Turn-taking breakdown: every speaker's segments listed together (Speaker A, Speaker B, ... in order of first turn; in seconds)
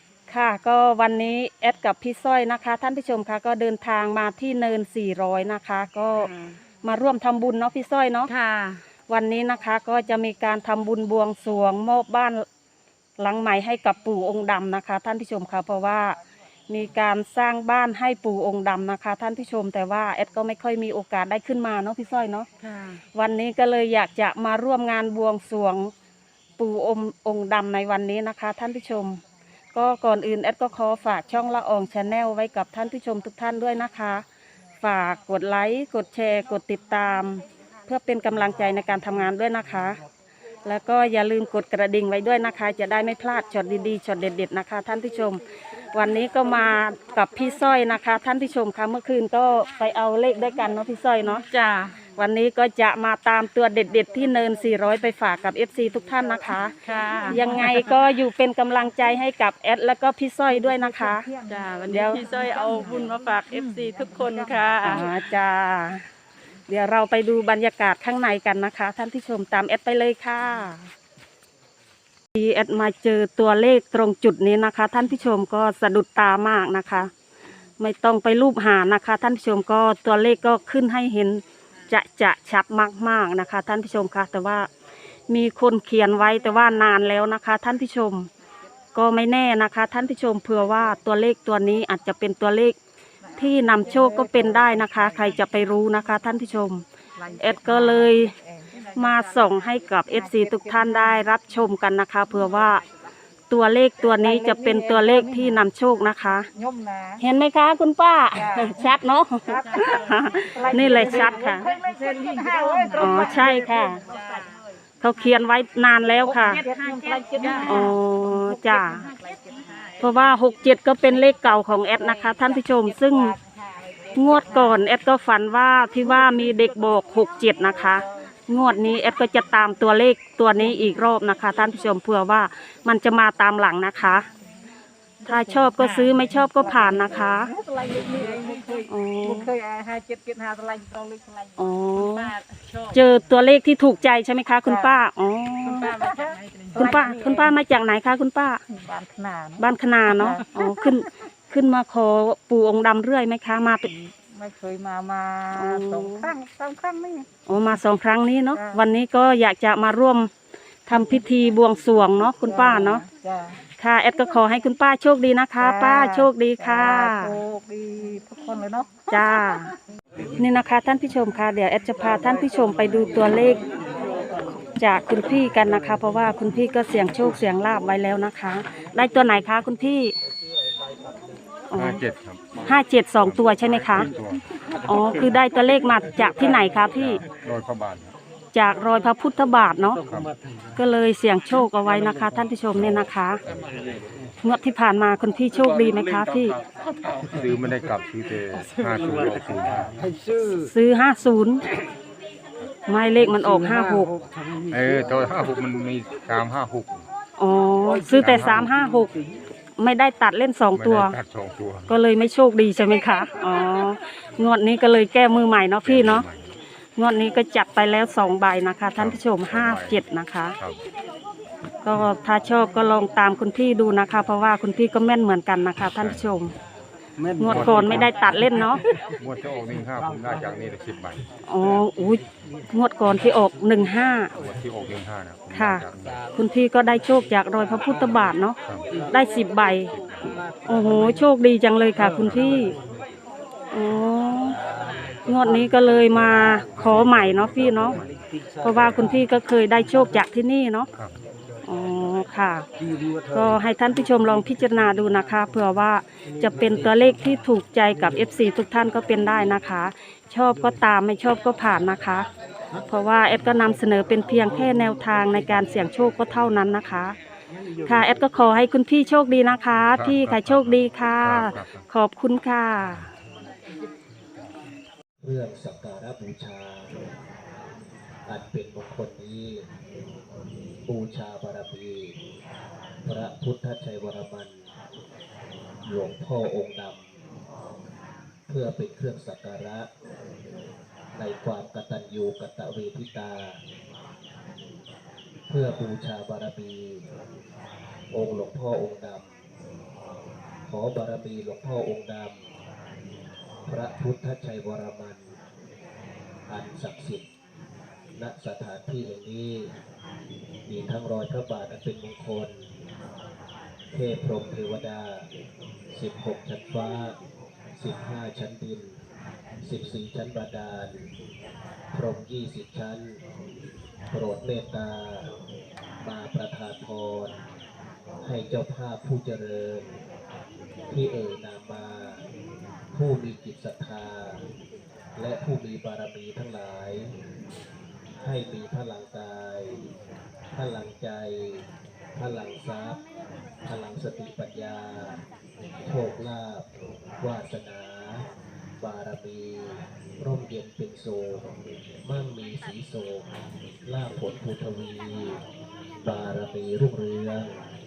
Speaker A: 0.3-6.3, 6.8-8.3, 9.1-12.4, 13.2-16.1, 16.7-22.5, 23.1-25.9, 26.6-29.2, 29.7-34.2, 34.8-40.0, 40.6-45.4, 45.9-51.4, 52.2-56.7, 57.2-61.2, 61.9-62.2, 64.8-66.0, 66.7-70.9, 72.3-77.1, 77.8-84.7, 85.3-88.3, 88.9-92.8, 93.4-96.8, 97.4-98.3, 98.9-102.8, 103.5-106.5, 107.2-111.7, 113.0-114.0, 115.0-116.6, 117.7-119.0, 120.0-123.3, 124.1-134.2, 135.2-137.5, 138.9-139.5, 141.6-142.3, 142.9-146.0, 146.8-148.6, 149.6-154.0, 155.5-156.3, 157.5-160.3, 160.9-163.0, 163.8-167.4, 169.1-169.7, 170.4-173.6, 174.8-180.1, 181.7-182.0, 182.7-184.1, 184.8-187.2, 188.5-190.0, 190.8-193.4, 194.4-196.6, 200.6-201.6, 202.9-204.1, 207.4-209.1, 209.8-211.1, 211.9-216.2, 217.0-220.5, 221.8-226.5, 227.4-228.8, 231.5-234.3, 235.5-238.6, 239.1-239.9, 240.7-242.7, 243.7-244.6, 245.3-248.0, 248.6-250.9, 251.7-252.7, 253.3-262.3, 262.9-267.1, 267.8-273.0
Speaker B: 6.2-6.6, 8.3-8.8, 22.6-23.0, 51.5-52.0, 56.9-57.9, 61.5-65.0, 117.4-117.7
Speaker C: 61.1-61.4, 97.3-99.0, 104.2-105.4, 106.5-107.2, 108.3-108.7, 109.5-109.9, 110.5-114.0, 116.4-117.9, 136.7-141.6, 144.7-144.9, 145.6-147.5, 148.7-149.6, 150.2-150.6, 154.3-157.3, 158.5-158.8, 162.4-163.6, 165.6-168.9
Speaker D: 181.7-184.4, 186.8-188.1, 192.8-193.0, 197.3-199.9, 204.7-207.1, 208.2-208.7, 210.7-211.9, 215.8-216.5, 218.9-220.0, 225.9-226.2, 227.5-228.2, 229.2-231.3, 234.4-236.1, 246.2-248.1, 248.8-249.1, 269.9-271.8
Speaker E: 275.2-276.9, 278.3-279.6, 280.9-282.1, 283.0-284.7, 285.9-287.1, 288.5-289.9, 291.1-293.6, 295.5-297.0, 298.1-299.3, 300.7-302.4, 303.6-305.3, 306.5-307.2, 308.2-309.7, 310.7-312.6, 313.9-315.3, 315.9-317.1, 317.8-319.0, 319.6-321.1, 321.9-323.2, 324.1-325.3, 326.0-327.4, 328.2-329.9, 330.9-332.2, 332.9-334.4, 335.2-337.1, 338.2-339.8, 340.5-341.6, 342.2-343.0, 343.6-345.2, 345.8-346.6, 347.2-348.2, 348.8-351.4, 352.0-353.2, 353.9-355.4, 356.0-357.6